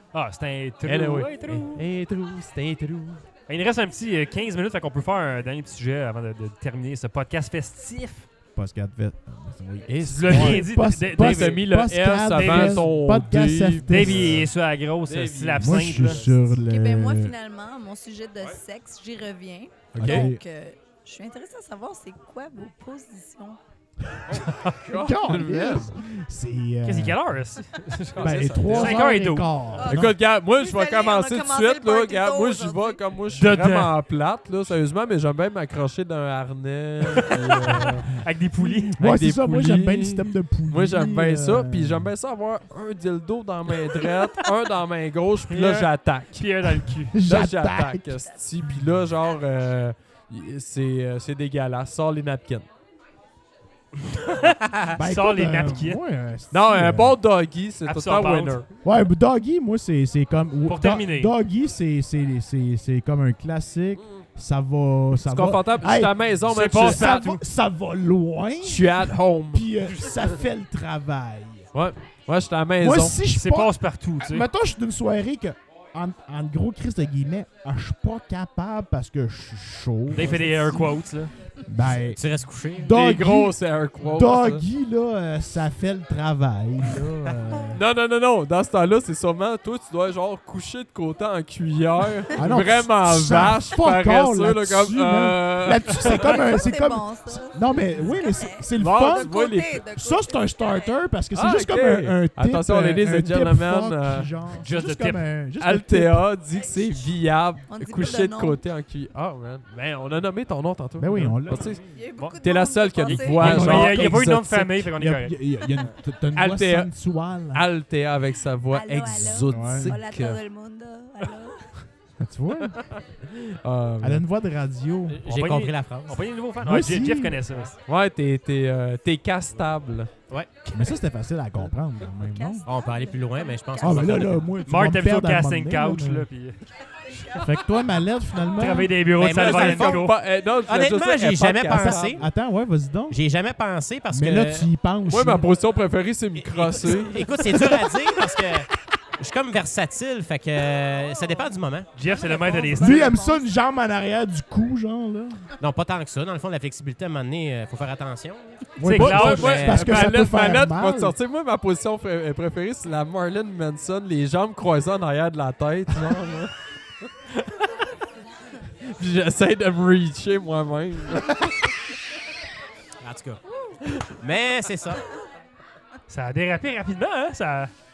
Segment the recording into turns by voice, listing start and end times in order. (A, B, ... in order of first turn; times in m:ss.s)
0:00.1-0:01.8 A
0:00.9-0:03.2 B
0:03.5-0:08.3 A
0:08.6-0:14.5 C
0:09.9-0:14.5 B
0:10.1-0:11.7 A
0:12.3-0:12.9 A
0:13.9-0:16.2 A
0:15.0-0:16.5 B
0:15.6-0:17.3 C
0:16.6-0:23.6 D
0:20.0-0:20.4 C
0:20.0-0:20.3 B
0:24.3-0:25.9 B
0:24.9-0:27.2 C
0:26.8-0:29.9 A
0:28.2-0:29.2 B
0:28.2-0:30.2 C
0:29.8-0:33.0 D
0:29.9-0:38.1 B
0:33.3-0:33.9 A
0:37.2-0:39.0 A
0:38.6-0:42.1 C
0:39.0-0:46.5 B
0:45.5-0:47.2 A
0:47.2-0:48.2 C
0:47.2-0:52.7 B
0:54.3-0:56.0 A
0:55.0-0:57.2 C
0:56.5-0:58.7 B
0:57.8-0:58.6 A
0:58.8-1:11.7 C
1:00.7-1:01.3 A
1:05.2-1:07.2 B
1:06.5-1:07.4 A
1:08.6-1:09.7 B
1:11.7-1:13.2 B
1:12.8-1:21.0 C
1:13.3-1:14.5 A
1:20.1-1:21.3 A
1:21.7-1:22.2 C
1:22.1-1:23.0 E
1:22.8-1:27.8 C
1:22.9-1:24.6 B
1:27.7-1:36.4 B
1:32.4-1:39.3 C
1:36.2-1:41.0 D
1:38.8-1:39.8 B
1:39.9-1:46.3 C
1:41.3-1:44.3 B
1:44.6-1:45.2 A
1:45.6-1:51.8 B
1:46.7-1:47.0 D
1:47.7-1:48.6 D
1:51.0-1:51.7 C
1:51.9-1:53.8 D
1:52.4-1:54.6 B
1:53.1-1:55.4 A
1:53.4-1:57.6 C
1:56.4-1:56.9 B
1:57.5-2:00.4 B
1:58.7-2:01.7 D
1:59.5-1:59.9 C
2:02.2-2:02.8 C
2:02.7-2:04.2 B
2:04.0-2:05.2 C
2:05.2-2:06.2 E
2:05.2-2:07.8 A
2:06.6-2:07.4 C
2:07.9-2:10.1 B
2:10.3-2:10.7 E
2:10.7-2:12.6 C
2:12.2-2:14.2 D
2:12.7-2:14.5 E
2:13.8-2:16.3 C
2:14.7-2:16.6 A
2:17.2-2:17.4 A
2:17.4-2:19.0 C
2:18.6-2:20.2 A
2:19.2-2:20.1 E
2:19.4-2:22.2 B
2:20.6-2:22.2 E
2:21.7-2:23.2 C
2:23.1-2:24.7 E
2:24.1-2:25.5 C
2:25.1-2:27.2 B
2:26.4-2:28.7 E
2:27.4-2:28.0 C
2:29.2-2:31.9 E
2:32.0-2:33.2 A
2:32.1-2:33.4 D
2:32.8-2:35.4 C
2:35.6-2:40.1 E
2:38.8-2:41.2 C
2:38.8-2:39.7 A
2:39.0-2:46.5 B
2:48.9-2:51.6 B
2:53.0-2:53.4 E
2:54.2-2:55.0 E
2:56.1-2:57.7 A